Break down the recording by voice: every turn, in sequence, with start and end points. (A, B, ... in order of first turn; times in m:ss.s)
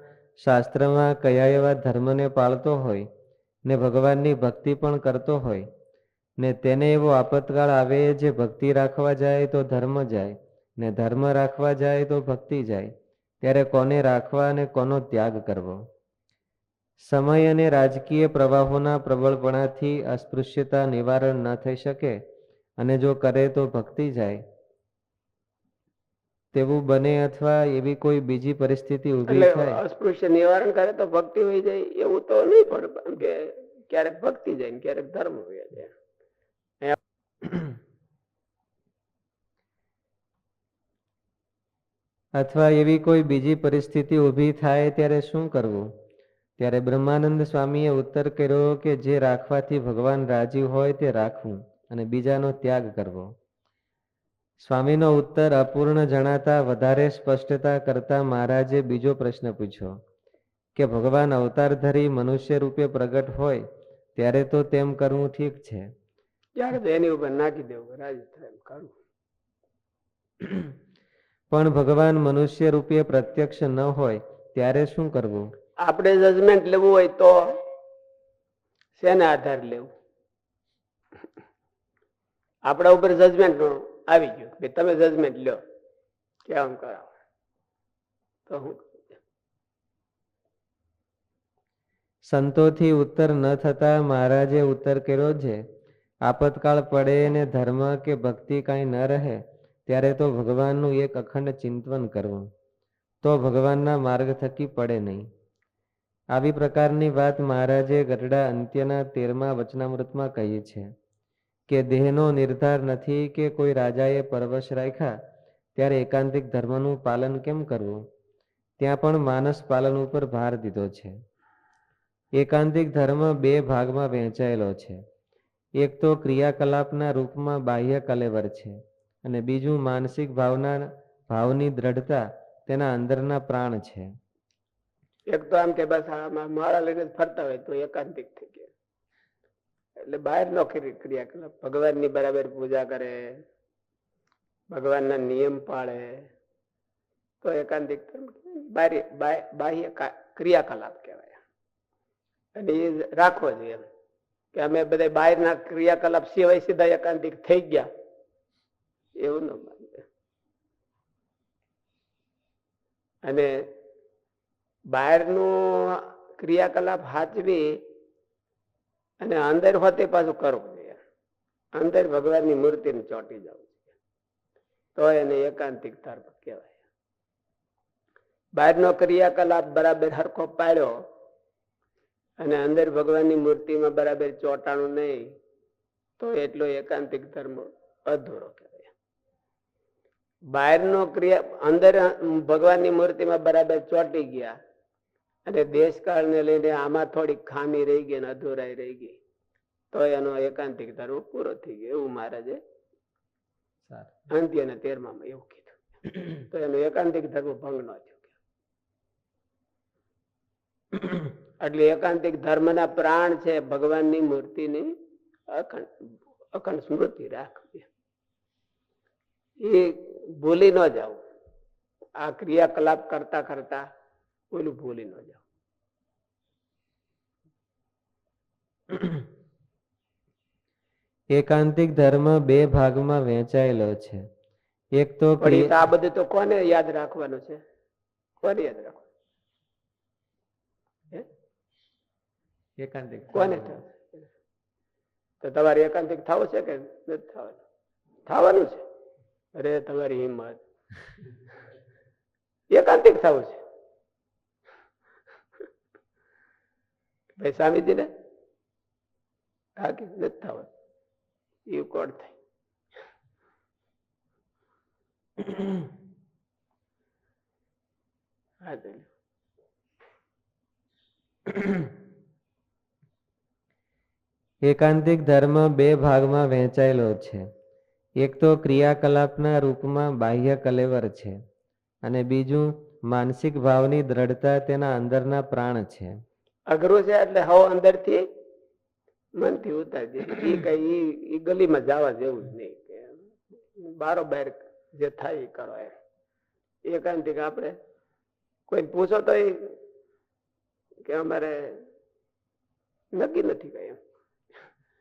0:00.4-0:03.1 A
0:03.6-0:05.7 A
0:06.4-0:12.9 A
0:13.4-0:15.8 A
0:17.1-0:22.2 A
0:22.8-0:24.4 A
0:26.5-0:29.8 A
0:29.3-0:35.9 B
0:36.8-0:37.6 B
0:42.4-0:45.9 A
0:46.6-0:53.3 A
0:54.6-1:00.0 A
1:00.8-1:03.6 A
1:04.2-1:05.8 A
1:06.6-1:08.9 B
1:11.5-1:15.4 A
1:15.8-1:17.6 B
1:19.0-1:19.9 B
1:22.7-1:25.6 B
1:26.4-1:27.1 B
1:28.5-1:29.0 B
1:32.2-1:35.6 A
1:36.2-1:42.5 A
1:43.2-1:45.3 A
1:46.3-1:50.9 A
1:51.7-1:55.1 A
1:55.8-1:58.0 A
1:58.8-2:01.1 A
2:02.4-2:05.0 A
2:05.8-2:14.1 A
2:15.3-2:18.7 B
2:20.0-2:23.4 B
2:24.7-2:26.3 B
2:27.4-2:31.4 B
2:32.6-2:33.8 B
2:34.5-2:37.9 B
2:39.2-2:40.0 B
2:43.2-2:43.7 B
2:44.9-2:47.8 B
2:49.2-2:51.0 B
2:51.8-2:53.9 B
2:55.0-2:56.8 B
2:58.6-3:00.9 B
3:02.4-3:05.4 B
3:06.2-3:08.9 B
3:10.5-3:14.5 B
3:15.4-3:19.2 B
3:19.9-3:22.6 B
3:23.9-3:24.2 A
3:24.3-3:28.3 B
3:31.6-3:35.0 B
3:35.5-3:37.9 B
3:39.6-3:41.2 B
3:42.2-3:43.8 B
3:44.5-3:45.4 B
3:51.3-3:54.2 A
3:55.0-3:55.7 A
3:55.4-3:57.6 B
3:58.4-3:59.1 B
4:02.8-4:03.8 A
4:03.3-4:03.9 B
4:05.4-4:07.6 B
4:08.2-4:08.8 B
4:09.5-4:10.6 B
4:12.7-4:13.6 B
4:17.4-4:18.1 B
4:19.8-4:20.7 B
4:21.7-4:22.4 B
4:28.6-4:29.1 B
4:34.6-4:37.4 A
4:38.2-4:41.4 A
4:42.0-4:46.1 A
4:46.7-4:48.2 B
4:49.4-4:56.0 B
4:56.8-4:57.8 B
4:58.7-4:59.7 B
5:01.0-5:01.8 B
5:03.1-5:04.0 B